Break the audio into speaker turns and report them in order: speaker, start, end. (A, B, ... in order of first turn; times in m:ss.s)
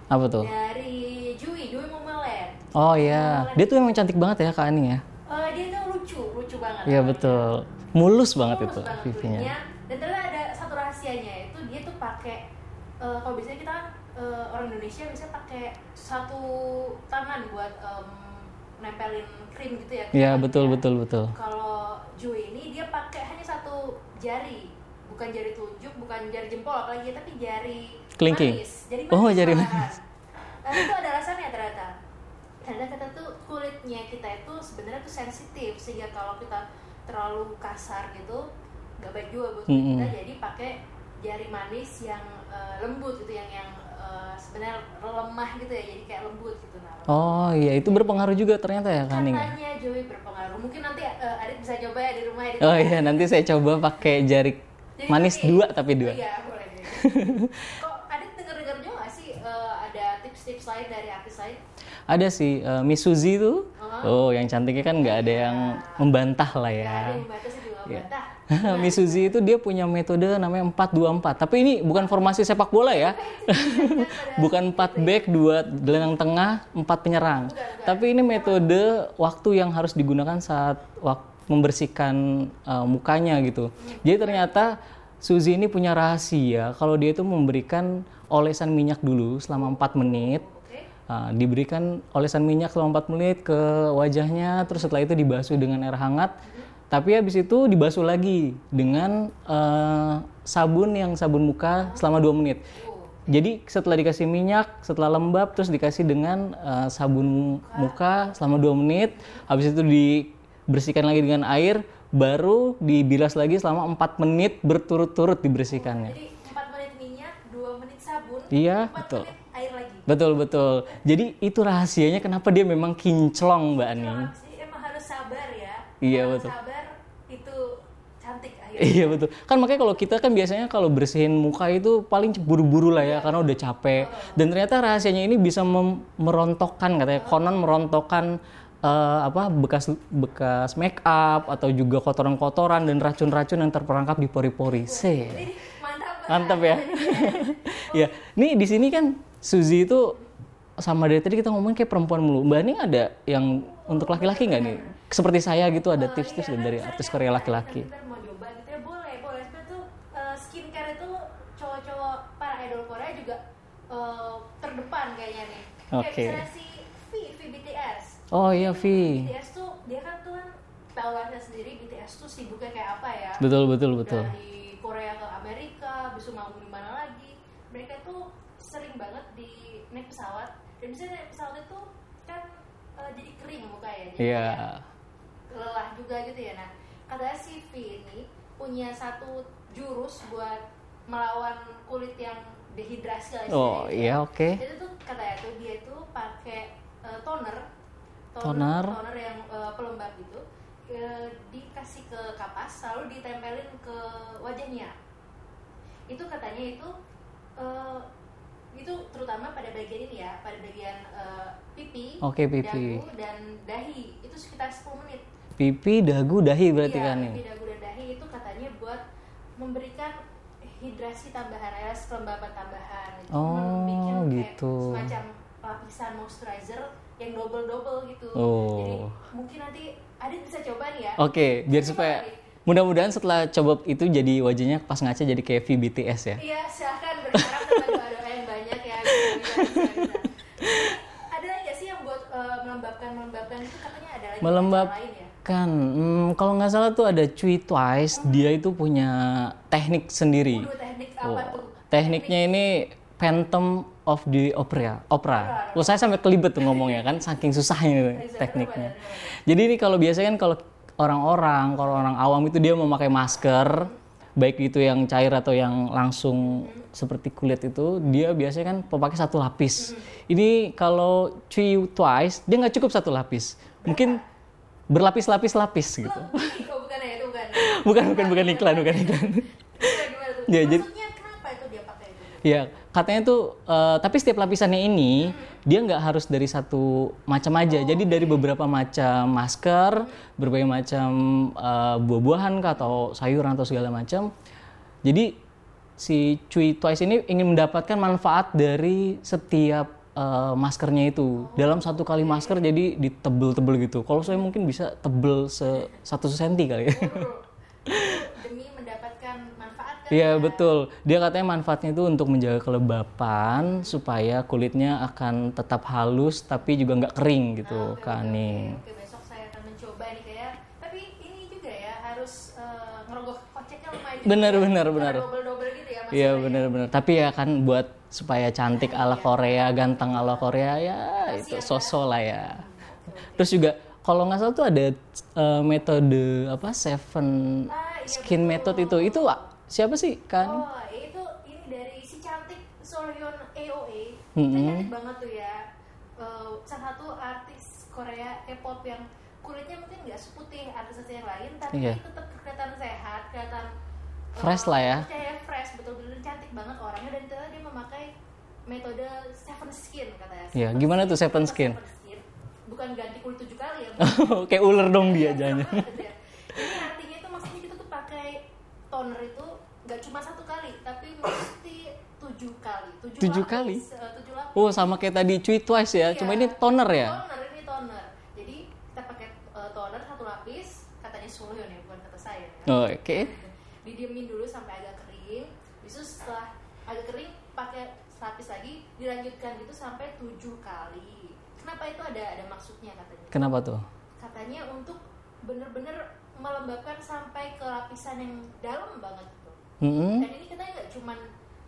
0:00.1-0:00.5 A
0:00.4-0:03.8 B
0:02.8-0:05.0 A
0:05.3-0:07.5 B
0:06.9-0:09.5 A
0:08.4-0:12.5 B
0:13.0-0:30.0 B
0:20.1-0:21.4 A
0:28.2-0:28.6 A
0:29.1-0:29.9 A
0:30.6-0:32.0 B
0:32.6-0:38.5 B
0:39.0-0:47.6 B
0:39.7-0:40.1 A
0:47.1-0:49.5 A
0:49.1-0:53.3 B
0:52.6-0:56.2 A
0:55.0-1:01.6 B
0:57.0-0:57.6 A
1:02.1-1:07.2 A
1:03.8-1:04.2 B
1:05.0-1:06.1 B
1:06.8-1:09.4 B
1:07.9-1:30.4 A
1:12.9-1:15.3 B
1:17.4-1:18.7 B
1:23.8-1:24.6 B
1:29.6-1:30.9 B
1:31.1-1:36.4 A
1:36.4-1:36.7 B
1:36.9-1:42.6 A
1:41.8-1:42.2 B
1:42.7-1:43.4 B
1:43.3-1:56.2 A
1:47.6-1:48.4 B
1:55.7-2:00.1 B
1:58.5-1:59.3 A
2:00.1-2:04.3 A
2:03.8-2:09.2 B
2:06.0-2:06.5 A
2:08.8-2:25.5 A
2:13.0-2:14.5 B
2:17.1-2:17.4 B
2:24.8-2:28.2 B
2:26.3-2:30.2 A
2:30.8-2:37.9 A
2:33.4-2:35.0 B
2:35.9-2:53.5 B
2:45.9-2:46.4 A
2:48.3-2:49.3 A
2:53.4-2:54.3 A
2:54.0-3:04.6 B
3:04.2-3:04.8 A
3:05.5-3:17.7 B
3:13.5-3:14.6 A
3:18.3-3:24.9 B
3:18.4-3:19.0 A
3:26.1-3:26.9 B
3:27.6-3:28.1 B
3:28.7-3:35.2 B
3:32.2-3:33.0 A
3:35.6-3:37.4 A
3:36.8-3:39.0 B
3:39.6-3:52.4 B
3:43.3-3:45.1 A
3:48.4-3:49.1 A
3:51.2-3:56.4 A
3:56.4-4:05.3 B
3:57.4-3:57.9 A
3:59.1-4:00.1 A
4:00.6-4:00.9 A
4:04.4-4:04.9 A
4:05.4-4:10.7 A
4:08.2-4:08.5 B
4:10.5-4:12.6 B
4:11.2-4:34.2 A
4:15.3-4:17.1 B
4:18.1-4:19.4 B
4:26.4-4:26.9 B
4:29.8-4:30.1 B
4:33.8-4:34.3 B
4:34.9-4:36.6 A
4:36.0-4:42.6 B
4:37.5-4:39.5 A
4:40.5-4:40.9 A
4:42.4-4:54.3 A
4:45.2-4:45.6 B
4:47.7-4:48.5 B
4:55.0-4:55.4 A
4:56.0-5:07.3 A
5:01.4-5:02.6 B
5:06.9-5:10.7 B
5:07.9-5:08.3 A
5:10.1-5:18.8 A
5:17.6-5:26.7 B
5:24.2-5:25.3 A
5:26.1-5:32.6 A
5:28.7-5:30.5 B
5:31.2-5:32.0 B
5:32.6-5:33.6 B
5:33.4-5:40.6 A
5:37.7-5:39.5 B
5:40.4-5:45.6 B
5:44.4-5:44.9 A
5:46.2-5:53.7 B
5:51.7-5:52.0 A
5:54.3-5:58.1 B
5:54.4-5:55.1 A
5:58.7-6:14.9 B
6:00.6-6:01.8 A
6:04.0-6:05.9 A
6:13.2-6:13.8 A
6:14.6-6:17.2 A
6:16.0-6:33.6 B
6:22.7-6:23.3 A
6:33.3-6:33.8 A
6:34.2-6:39.6 B
6:39.8-6:40.3 A
6:40.2-6:41.2 B